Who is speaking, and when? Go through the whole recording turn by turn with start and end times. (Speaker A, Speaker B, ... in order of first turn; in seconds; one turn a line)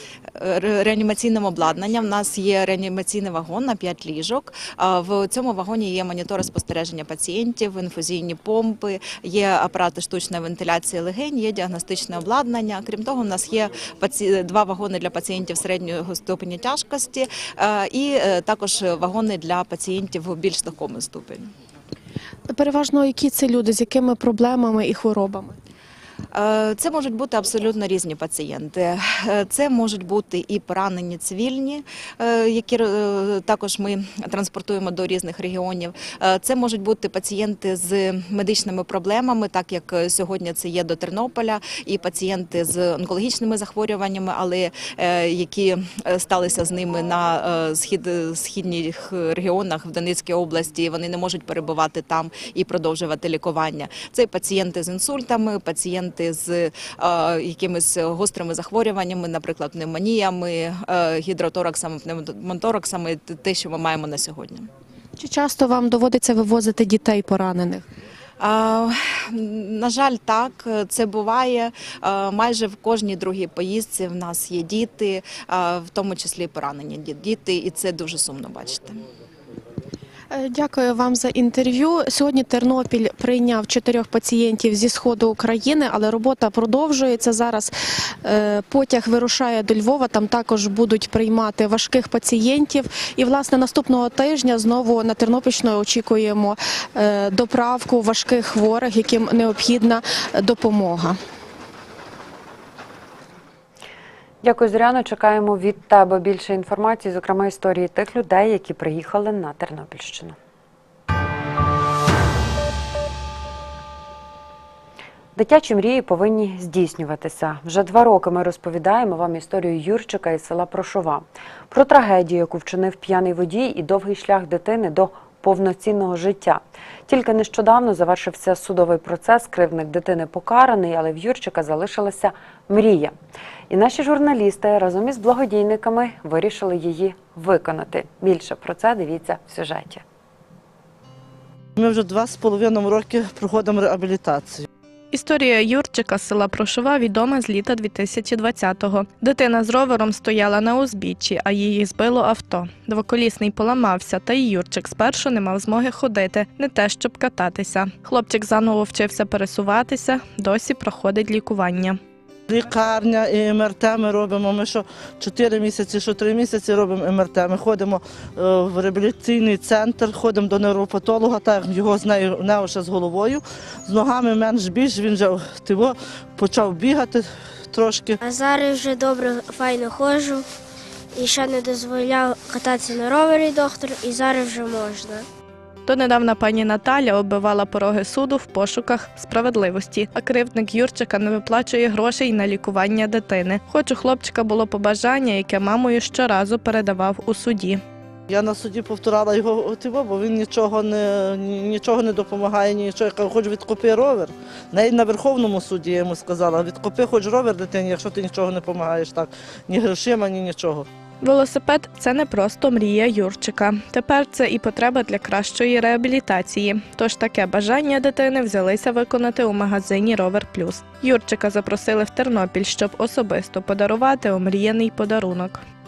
Speaker A: 0.4-21.5
Speaker B: 22.5-25.6
Speaker A: 26.3-64.7
Speaker B: 65.2-67.8
Speaker A: 68.4-79.0
Speaker B: 80.3-87.7
Speaker B: 88.2-101.2
Speaker C: 104.4-110.3
Speaker C: 115.3-133.1
Speaker C: 133.7-140.0
Speaker D: 141.8-144.7
Speaker E: 145.1-162.0
Speaker D: 162.5-178.2
Speaker F: 178.2-180.4
Speaker F: 181.1-185.2
Speaker E: 185.8-197.8
Speaker D: 198.3-210.9
Speaker E: 211.2-225.6